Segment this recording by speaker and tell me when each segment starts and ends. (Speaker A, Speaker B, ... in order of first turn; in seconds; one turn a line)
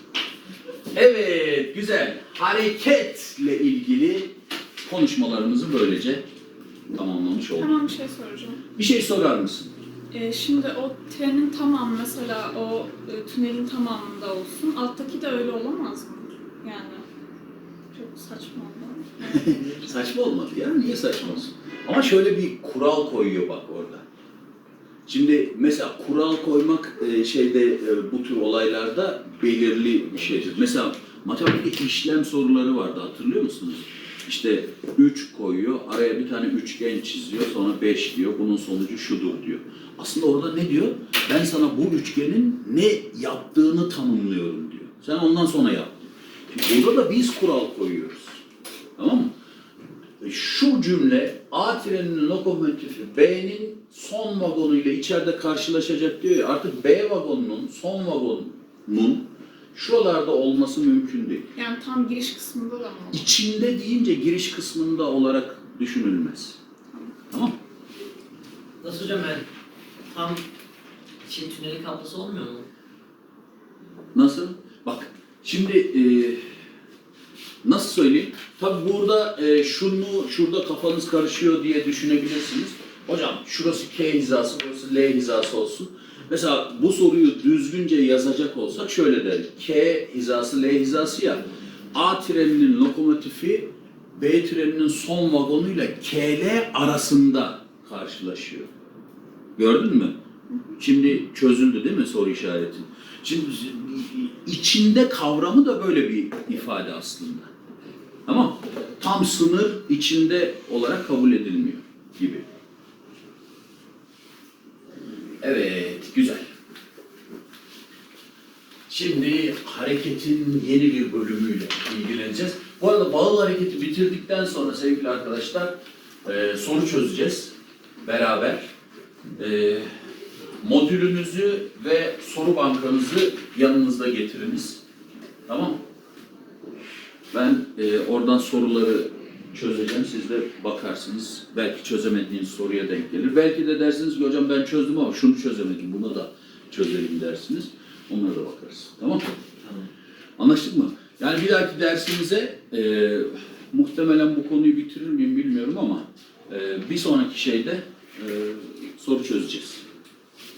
Speaker A: 0.9-4.3
Speaker A: 4.8-6.2
Speaker A: 6.9-7.8
Speaker B: 7.6-8.6
Speaker A: 8.8-9.7
Speaker B: 10.1-17.0
Speaker B: 17.9-19.8
Speaker A: 19.2-24.0
Speaker B: 20.7-21.4
Speaker A: 25.1-48.4
Speaker A: 49.0-49.3
Speaker A: 50.2-61.5
Speaker B: 61.5-63.3
Speaker A: 63.1-66.6
Speaker B: 66.9-67.2
Speaker A: 67.3-67.5
Speaker C: 68.8-69.5
Speaker C: 70.1-70.4
Speaker C: 71.2-72.7
Speaker A: 74.1-76.4
Speaker A: 77.6-98.7
Speaker A: 99.5-100.2
Speaker A: 100.8-107.5
Speaker A: 108.2-112.5
Speaker A: 115.4-116.5
Speaker A: 118.9-128.7
Speaker A: 129.4-129.9
Speaker A: 130.6-134.8
Speaker A: 135.5-135.8
Speaker A: 137.3-149.3
Speaker A: 150.4-159.8